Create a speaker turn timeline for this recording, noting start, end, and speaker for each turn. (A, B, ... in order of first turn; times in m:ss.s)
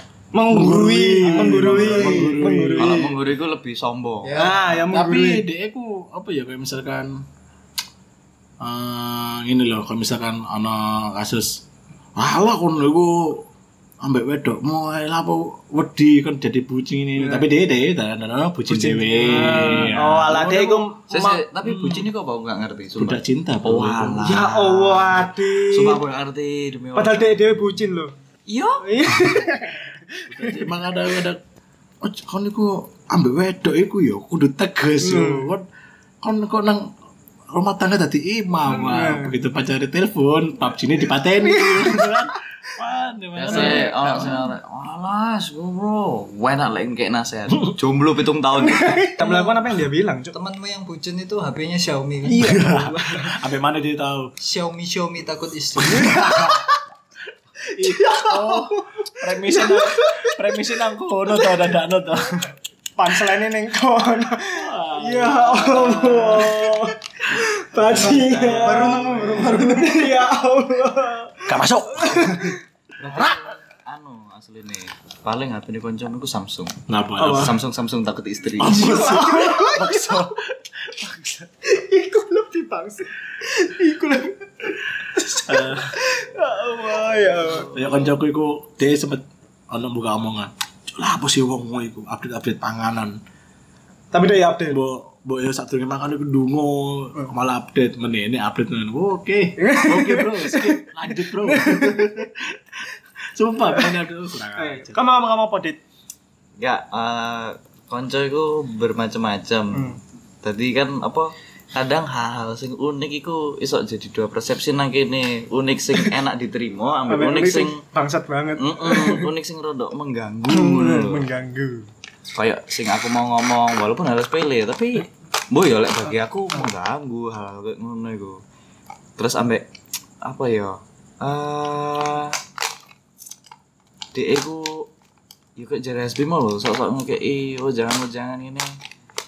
0:00.3-0:03.2 A
0:00.5-0:03.0 B
0:01.4-0:02.3 C
0:02.8-0:04.4 D
0:04.2-0:04.8 C
0:04.4-0:05.4 A
0:04.9-0:07.2 B
0:08.6-0:11.6 B
0:12.2-0:13.5 B
0:14.0-0:20.9 B
0:17.2-0:17.5 A
0:18.7-0:21.5 A
0:21.1-0:27.7 D
0:21.6-0:22.1 B
0:23.0-0:24.2 B
0:24.2-0:26.0 A
0:27.0-0:28.1 A
0:28.5-0:28.9 D
0:28.8-0:30.7 A
0:30.3-0:31.4 B
0:32.0-0:35.6 B
0:35.0-0:35.5 A
0:36.2-0:36.9 B
0:37.5-0:44.4 B
0:38.7-0:39.4 A
0:41.4-0:42.3 A
0:43.4-0:49.0 D
0:43.5-0:43.9 A
0:48.6-0:50.4 A
0:50.3-0:52.9 C
0:52.2-0:54.3 B
0:52.4-0:53.4 A
0:54.4-0:56.5 C
0:55.9-0:56.6 A
0:56.0-0:56.6 B
0:57.7-1:02.5 B
0:57.8-1:00.4 A
1:03.0-1:12.6 A
1:04.5-1:06.9 B
1:07.8-1:09.8 B
1:08.1-1:09.0 D
1:08.6-1:10.0 C
1:11.5-1:12.6 B
1:13.0-1:18.9 D
1:16.9-1:17.6 B
1:17.2-1:17.6 A
1:18.6-1:21.5 B
1:18.6-1:20.2 A
1:21.6-1:27.9 A
1:25.4-1:25.9 B
1:27.6-1:33.2 B
1:34.1-1:34.8 A
1:34.7-1:45.0 B
1:39.6-1:42.2 A
1:44.6-1:45.8 A
1:46.6-1:57.8 D
1:57.1-1:59.3 A
1:58.6-2:01.2 D
2:00.5-2:01.9 A
2:02.3-2:08.4 D
2:09.2-2:09.7 D
2:10.2-2:12.4 D
2:14.1-2:14.9 D
2:15.6-2:18.8 D